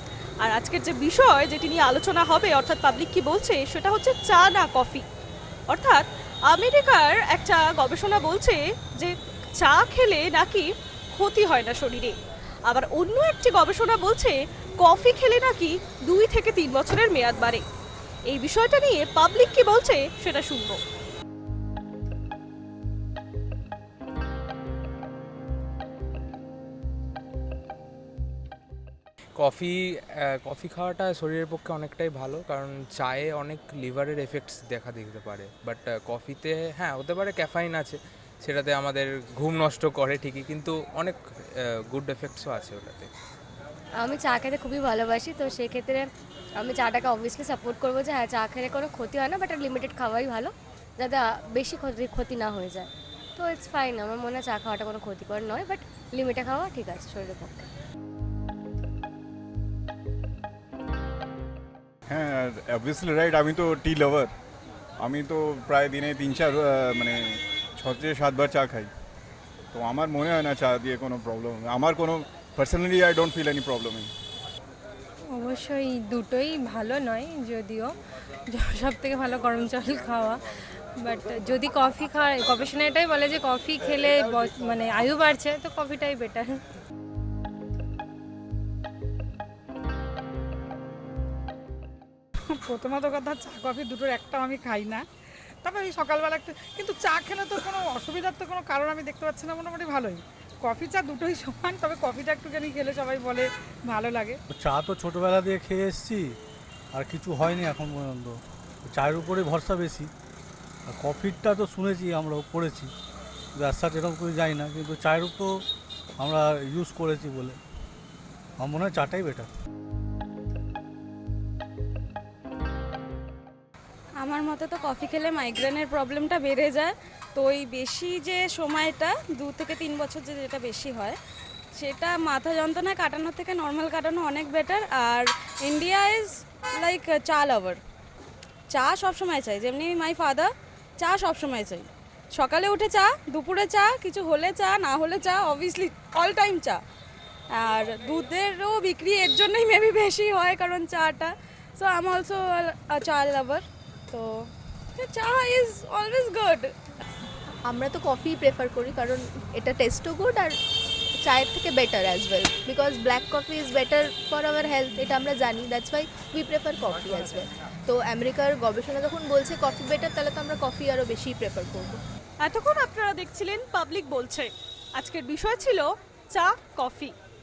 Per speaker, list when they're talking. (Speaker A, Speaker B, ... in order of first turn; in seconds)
Speaker A: 0.4-5.1, 5.7-12.2, 12.7-17.6, 18.3-20.8, 172.4-177.1
Speaker B: 29.4-41.2, 41.9-43.1
Speaker C: 44.0-46.1, 46.6-57.7
Speaker D: 62.1-64.3, 65.0-68.9, 69.7-74.1
Speaker E: 75.3-77.9, 78.5-80.4, 81.0-86.6
Speaker F: 92.5-95.0, 95.6-104.4
Speaker G: 104.5-106.3, 106.9-110.1, 110.9-112.9, 113.6-115.6, 116.2-117.6, 118.6-119.5
Speaker H: 124.2-131.2, 131.7-137.8, 138.7-146.8, 147.5-156.7
Speaker I: 157.7-160.6, 161.2-172.0